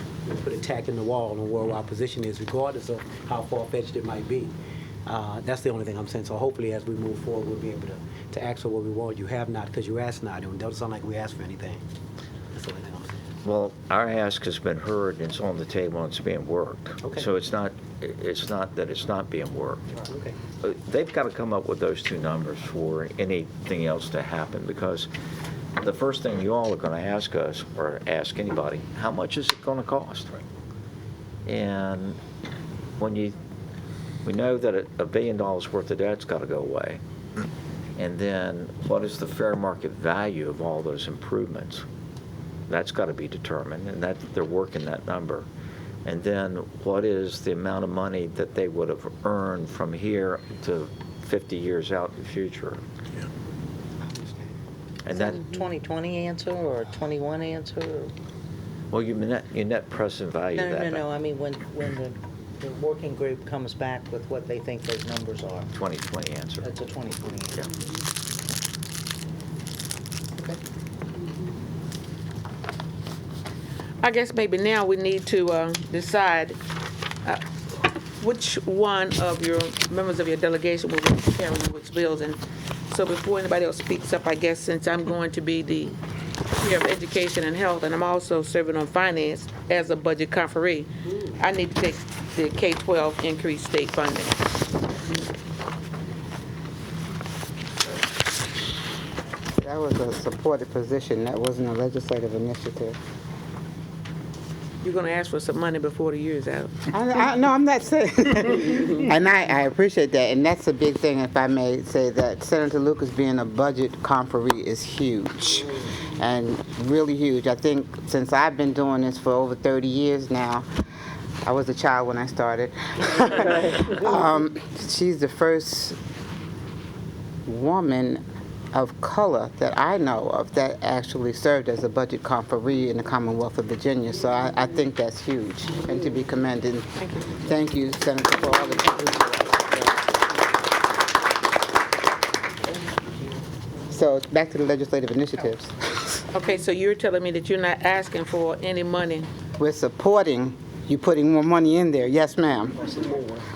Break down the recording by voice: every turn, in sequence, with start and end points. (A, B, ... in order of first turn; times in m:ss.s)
0:00.2-0:04.5 A
0:05.1-0:11.8 A
0:12.5-0:13.2 A
0:13.4-0:19.9 B
0:20.1-0:20.4 A
0:20.6-0:25.1 B
0:25.8-0:30.4 B
0:31.5-0:32.2 B
0:33.0-0:33.4 B
0:34.2-0:37.0 B
0:38.0-0:41.8 B
0:42.7-0:45.5 B
0:46.0-0:52.8 B
0:55.0-0:55.5 B
0:55.1-0:58.1 C
0:58.9-1:01.1 B
1:00.6-1:05.7 C
1:05.7-1:06.8 B
1:06.6-1:07.7 C
1:14.0-1:16.6 D
1:18.2-1:26.0 D
1:26.6-1:34.5 D
1:39.6-1:43.0 E
1:44.8-1:46.9 D
1:46.9-2:00.7 E
2:01.4-2:06.0 E
2:07.5-2:08.2 E
2:08.7-2:20.5 E
2:17.0-2:17.3 D
2:23.9-2:26.2 E
2:26.3-2:29.3 D
2:29.6-2:33.4 E